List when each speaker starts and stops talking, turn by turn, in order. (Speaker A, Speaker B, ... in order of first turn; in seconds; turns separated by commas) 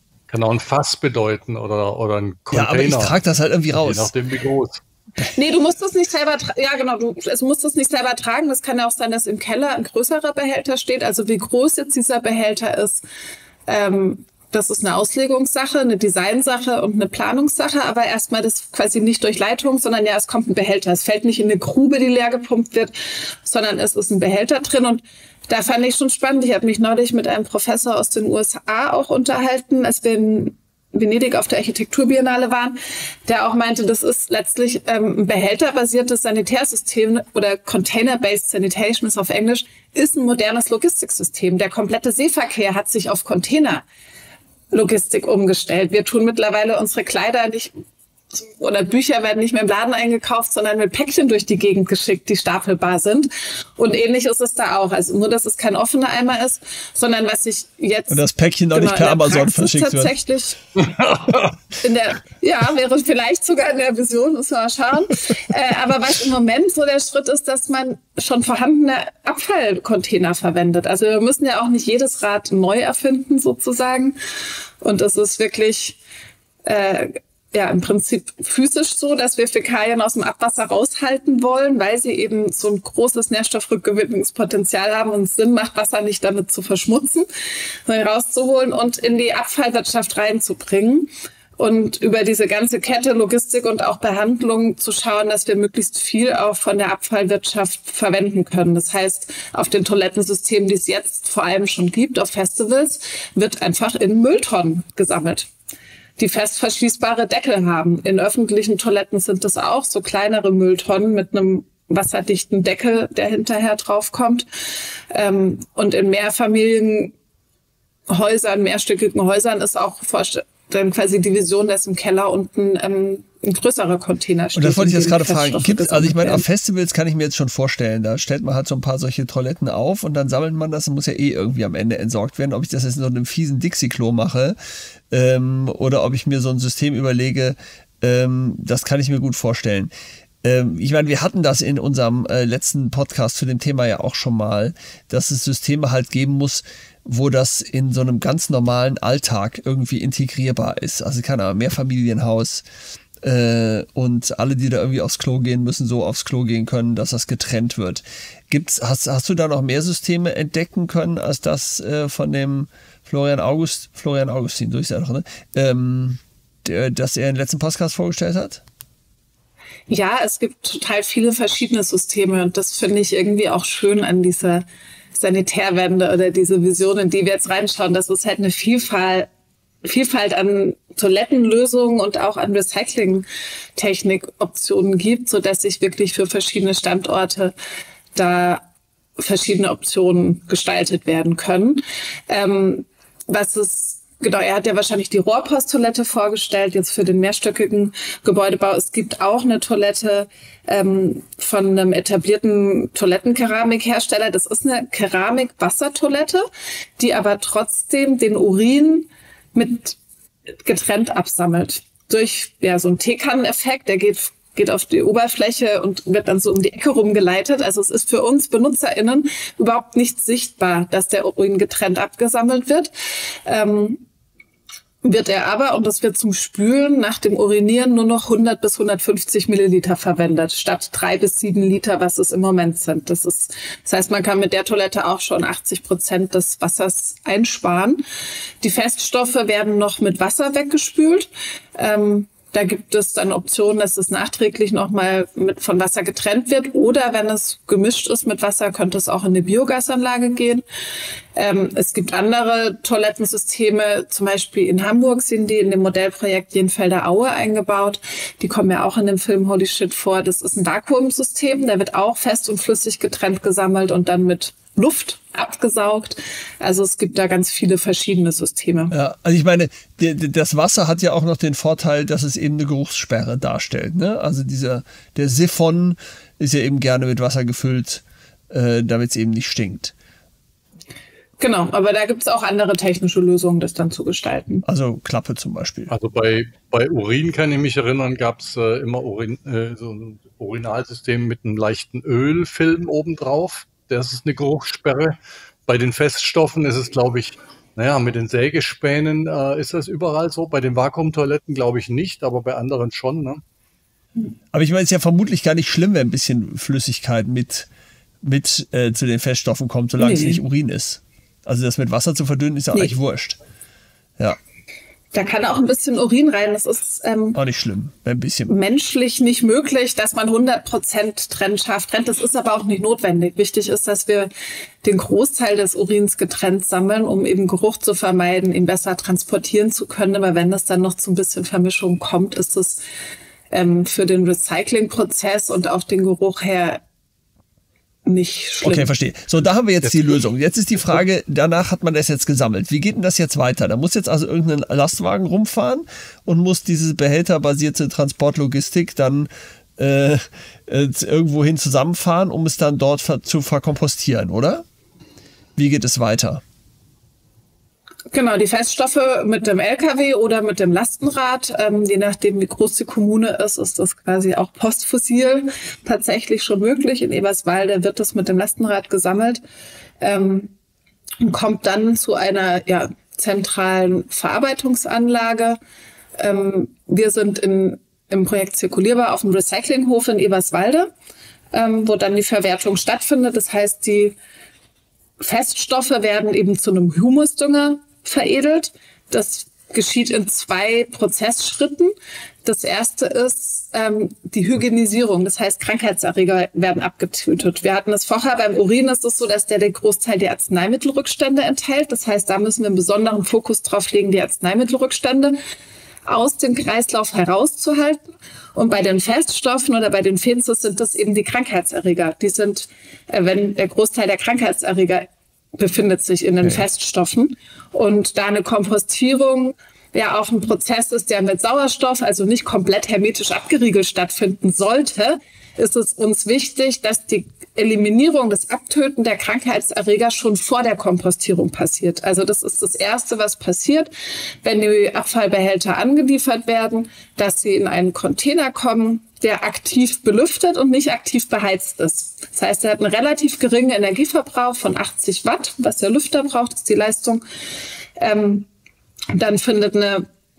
Speaker A: 0.3-3.2, Speaker B: 2.5-4.1, Speaker A: 3.7-4.8, Speaker C: 5.3-13.0, Speaker C: 13.7-43.8, Speaker C: 44.7-47.7, Speaker C: 48.3-60.6, Speaker B: 58.1-60.1, Speaker A: 60.8-61.5, Speaker C: 61.8-74.2, Speaker C: 74.8-76.0, Speaker C: 76.6-87.2, Speaker C: 87.8-105.5, Speaker C: 106.2-114.5, Speaker C: 115.1-117.1, Speaker C: 118.1-126.4, Speaker B: 124.5-134.6, Speaker B: 135.1-139.9, Speaker B: 140.4-152.6, Speaker B: 153.2-168.6, Speaker C: 169.9-179.3, Speaker C: 179.8-187.5, Speaker C: 188.1-188.6, Speaker C: 189.2-206.4, Speaker C: 207.0-210.0, Speaker C: 210.6-222.9, Speaker C: 223.4-224.0, Speaker C: 225.0-238.0, Speaker C: 238.6-250.6, Speaker C: 251.3-268.9, Speaker B: 268.9-279.9, Speaker C: 281.4-284.6, Speaker B: 284.7-285.9, Speaker A: 285.9-295.1, Speaker A: 295.7-303.4, Speaker B: 304.5-307.7, Speaker B: 308.2-313.4, Speaker C: 310.0-310.4, Speaker C: 315.1-317.4, Speaker B: 317.3-318.5, Speaker C: 318.5-324.3, Speaker C: 324.8-332.8, Speaker C: 333.5-336.8, Speaker C: 338.1-338.9, Speaker B: 338.6-354.6, Speaker A: 339.8-340.2, Speaker B: 355.6-356.4, Speaker C: 358.1-369.4, Speaker C: 370.0-370.5, Speaker C: 371.2-375.6, Speaker C: 376.2-380.9, Speaker C: 381.5-384.2, Speaker C: 385.2-391.9, Speaker C: 392.4-405.4, Speaker C: 406.1-408.0, Speaker C: 408.5-433.9, Speaker C: 434.4-447.2, Speaker C: 448.0-448.5, Speaker C: 449.1-450.1